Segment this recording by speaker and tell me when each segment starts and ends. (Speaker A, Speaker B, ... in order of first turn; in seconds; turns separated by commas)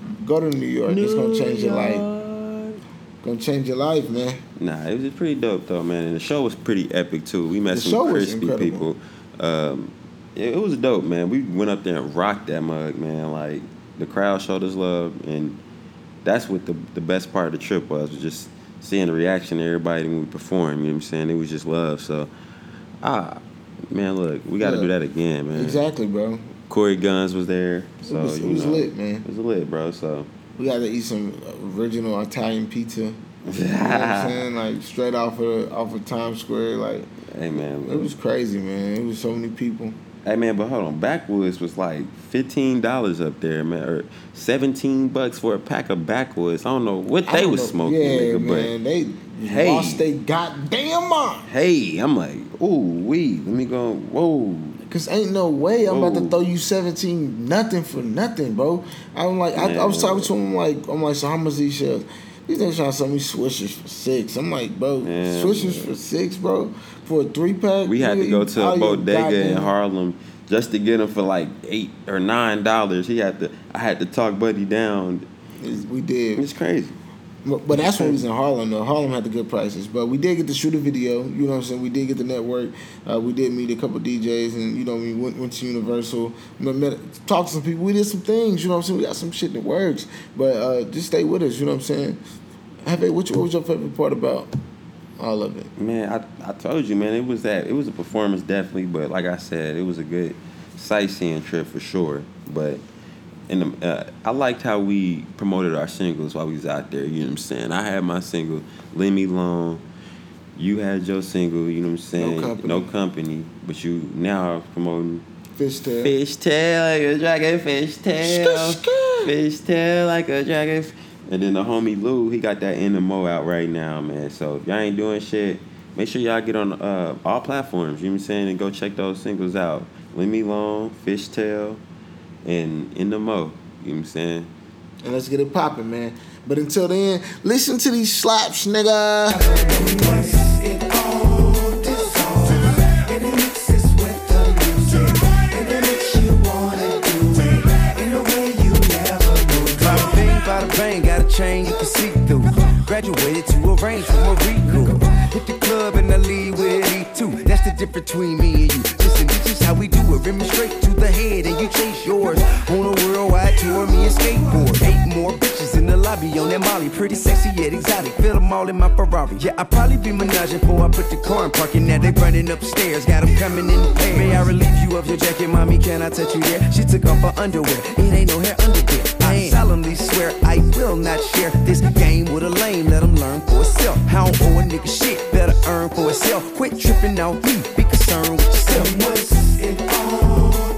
Speaker A: 0.2-2.0, Speaker B: 0.9-2.8, Speaker A: 3.2-4.4, Speaker B: 4.6-15.6, Speaker A: 7.7-8.9, Speaker B: 16.2-22.3, Speaker B: 23.0-25.8, Speaker A: 24.6-24.9, Speaker A: 25.6-26.5, Speaker B: 26.7-30.3, Speaker A: 28.1-29.2, Speaker A: 30.6-33.2, Speaker B: 33.5-34.4, Speaker A: 33.8-37.1, Speaker B: 37.3-38.1, Speaker A: 37.8-40.0, Speaker B: 40.2-48.7, Speaker A: 47.3-51.5, Speaker B: 49.4-50.0, Speaker B: 51.5-54.8, Speaker A: 54.9-69.7, Speaker B: 55.9-56.4, Speaker B: 59.5-60.3, Speaker B: 65.0-65.9, Speaker B: 67.9-75.3, Speaker A: 75.6-76.4, Speaker B: 76.4-77.0, Speaker A: 77.5-92.2, Speaker B: 77.7-78.2, Speaker A: 92.8-94.5, Speaker A: 95.2-95.7, Speaker B: 95.8-102.8, Speaker B: 103.5-109.8, Speaker B: 110.6-115.2, Speaker A: 112.2-112.9, Speaker A: 115.6-116.1, Speaker B: 116.0-131.8, Speaker A: 118.2-119.3, Speaker B: 132.4-134.5, Speaker A: 135.0-139.5, Speaker C: 139.6-140.9, Speaker C: 141.4-189.1